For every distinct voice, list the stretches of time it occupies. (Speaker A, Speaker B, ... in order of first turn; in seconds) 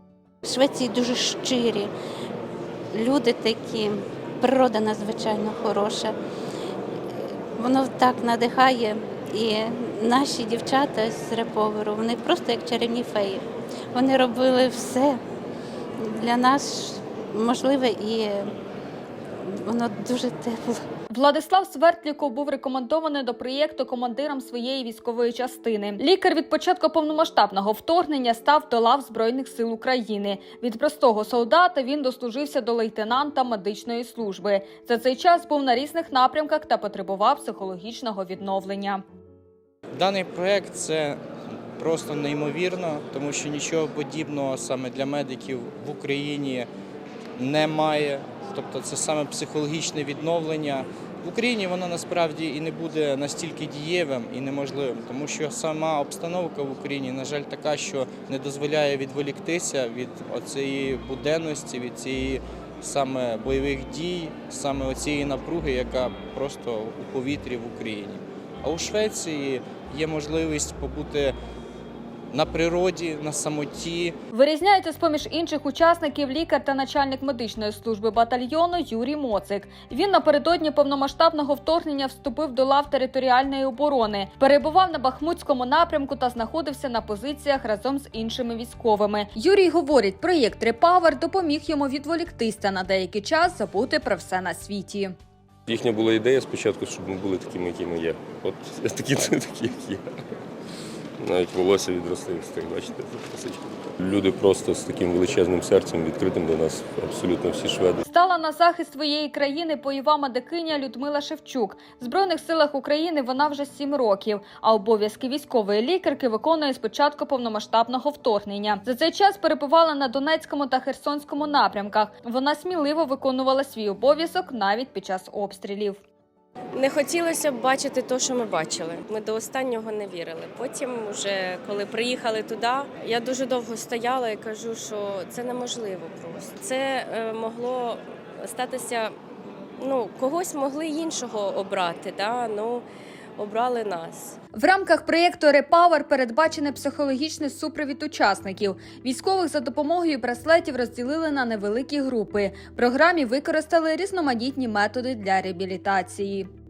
Speaker A: 0.5-1.9, 2.9-6.2, 7.2-15.2, 16.0-18.5, 19.5-20.8
Speaker B: 21.1-39.0, 74.3-95.1, 108.1-126.0, 144.6-156.5
Speaker C: 40.0-41.2, 41.8-46.7, 47.4-71.3, 72.3-74.1
Speaker D: 95.7-100.1, 101.2-108.0
Speaker E: 126.7-139.2, 139.8-142.9, 143.4-144.4